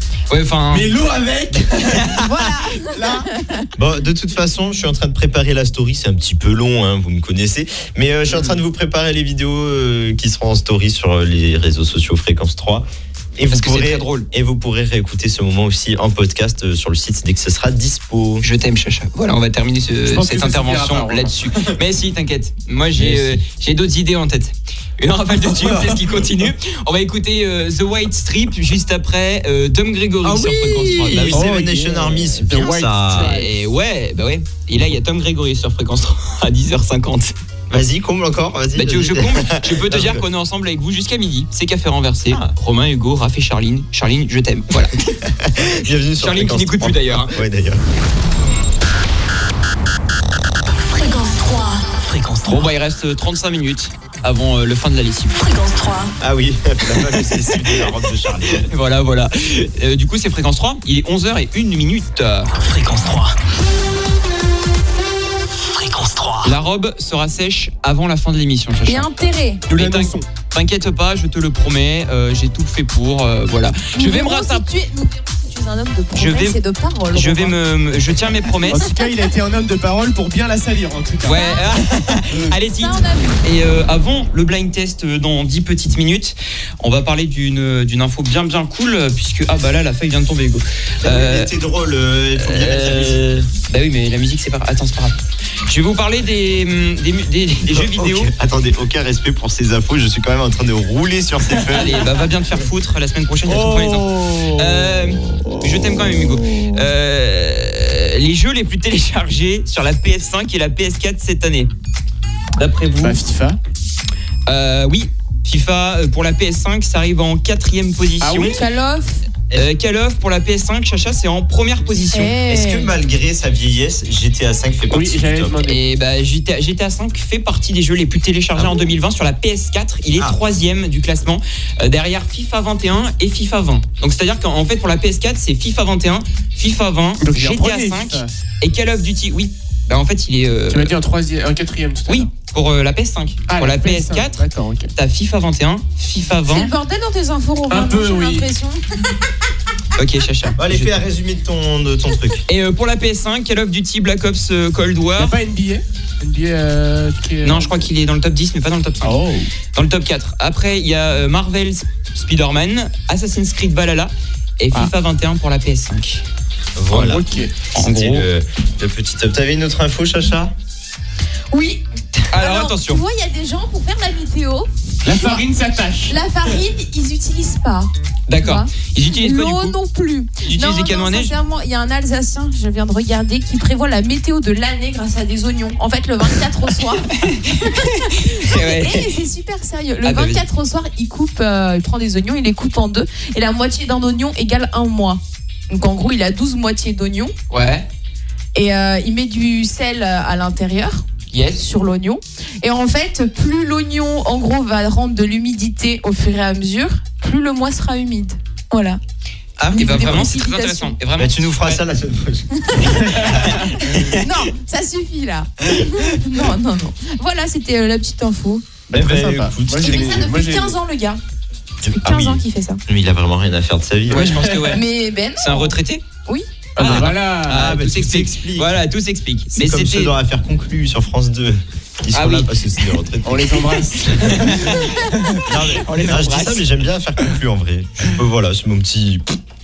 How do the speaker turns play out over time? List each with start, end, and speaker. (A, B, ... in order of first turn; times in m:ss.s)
0:00.3-0:00.9 A
0:00.7-0:02.2 B
0:01.3-0:02.4 C
0:02.2-0:03.7 D
0:02.8-0:03.3 B
0:03.7-0:18.4 C
0:13.5-0:14.3 A
0:18.4-0:31.5 A
0:20.0-0:21.8 B
0:22.9-0:23.4 C
0:25.4-0:26.4 C
0:30.2-0:33.3 C
0:31.3-0:33.5 B
0:33.1-0:37.3 A
0:37.7-0:40.2 C
0:38.7-0:45.1 A
0:45.1-0:47.8 C
0:46.2-0:47.4 A
0:50.8-0:52.7 E
0:52.5-0:55.4 A
0:55.4-0:56.1 E
0:56.2-0:58.7 C
0:56.9-0:57.9 A
0:58.5-1:02.5 A
1:02.5-1:03.4 E
1:05.6-1:06.6 E
1:06.4-1:14.6 A
1:08.8-1:09.6 D
1:09.7-1:10.2 B
1:13.9-1:17.6 D
1:16.1-1:16.6 A
1:17.1-1:18.9 A
1:18.6-1:21.5 B
1:18.7-1:19.2 D
1:21.2-1:31.5 A
1:21.3-1:21.7 D
1:22.2-1:22.5 B
1:22.6-1:23.4 D
1:31.0-1:33.4 C
1:32.4-1:38.3 A
1:37.7-1:42.1 C
1:41.7-1:51.7 A
1:43.4-1:46.7 B
1:52.6-1:53.2 A
1:53.0-1:53.6 B
1:54.5-1:58.6 A
1:58.2-1:58.6 B
1:58.4-1:59.2 D
1:59.5-2:02.4 A
2:02.1-2:02.9 D
2:02.4-2:05.6 C
2:04.9-2:05.8 B
2:05.6-2:20.9 A
2:08.5-2:08.9 C
2:17.2-2:18.3 B
2:20.7-2:22.3 B
2:22.1-2:26.7 A
2:23.5-2:24.9 B
2:26.4-2:28.8 D
2:27.7-2:28.5 B
2:29.9-2:31.0 A
2:30.6-2:32.4 C
2:32.5-2:35.4 A
2:35.2-2:37.8 B
2:37.4-2:39.2 A
2:39.0-2:39.5 B
2:39.7-2:46.2 A
2:46.8-2:50.5 C
2:46.9-2:47.5 B
2:47.7-2:48.2 A
2:51.5-2:55.4 D
2:52.3-2:53.0 A
2:55.0-2:56.2 B
2:56.1-3:17.3 D
2:58.3-2:59.8 A
3:00.4-3:01.3 A
3:07.2-3:09.1 A
3:10.0-3:10.4 A
3:17.5-3:17.9 A
3:18.5-3:29.0 D
3:21.3-3:21.6 A
3:29.6-3:30.3 C
3:29.7-3:31.0 D
3:29.7-3:31.8 A
3:31.2-3:34.3 C
3:32.6-3:33.1 D
3:32.9-3:33.6 B
3:34.1-3:38.6 D
3:35.7-3:36.2 C
3:38.9-3:40.8 B
3:38.9-3:40.3 C
3:39.8-3:41.2 D
3:41.8-3:44.6 C
3:41.9-3:42.8 D
3:44.1-3:44.8 A
3:44.1-3:44.7 B
3:44.7-3:46.4 D
3:45.4-3:46.0 A
3:46.8-3:47.7 B
3:46.8-3:50.1 A
3:46.8-3:48.7 C
3:49.5-3:54.5 C
3:52.1-3:52.9 A
3:53.2-3:55.5 B
3:54.4-3:54.9 A
3:55.4-3:59.4 C
3:55.6-3:56.7 A